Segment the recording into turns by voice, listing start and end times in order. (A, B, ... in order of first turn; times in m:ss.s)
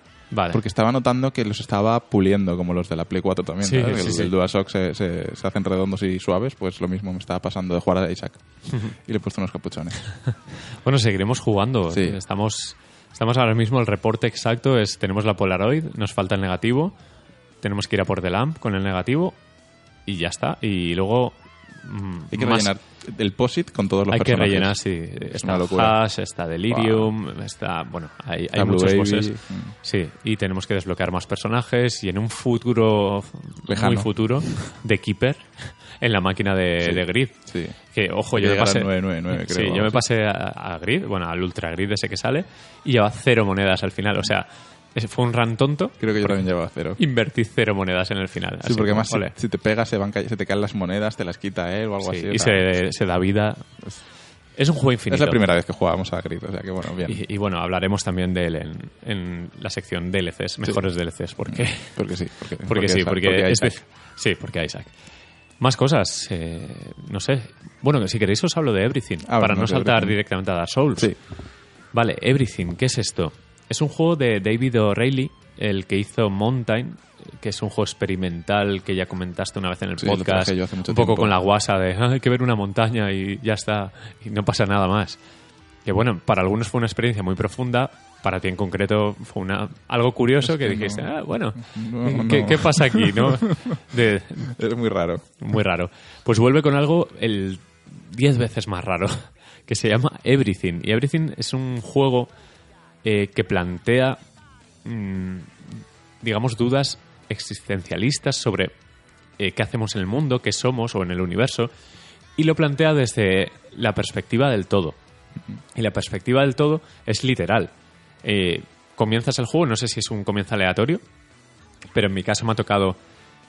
0:00.3-0:00.6 A
0:00.5-0:08.4 B
0:03.6-0:04.3 A
0:08.7-0:08.9 A
0:08.9-0:10.0 B
0:10.8-0:16.9 A
0:11.9-0:12.2 B
0:17.6-0:19.4 A
0:20.0-0:22.7 A
0:22.3-0:26.0 B
0:24.1-0:37.4 A
0:26.7-0:27.1 B
0:28.5-0:29.7 B
0:33.7-0:34.7 B
0:36.8-0:37.8 B
0:37.9-0:46.4 A
0:38.4-0:40.0 B
0:46.0-0:47.0 B
0:47.0-0:49.3 A
0:48.6-0:52.6 B
0:52.0-0:54.0 A
0:54.6-0:55.4 A
0:55.1-0:57.2 B
0:57.1-1:01.9 A
1:01.4-1:03.8 B
1:02.6-1:04.9 A
1:05.6-1:11.1 A
1:09.2-1:10.2 B
1:11.9-1:25.2 A
1:20.0-1:21.3 B
1:25.8-1:34.6 A
1:30.4-1:33.8 B
1:34.4-1:35.2 B
1:35.4-1:42.3 A
1:43.0-1:44.2 A
1:44.8-1:45.7 A
1:46.2-1:48.7 A
1:49.4-1:51.7 A
1:52.4-1:55.0 A
1:55.7-1:57.7 A
1:58.2-2:01.0 A
2:01.9-2:03.0 A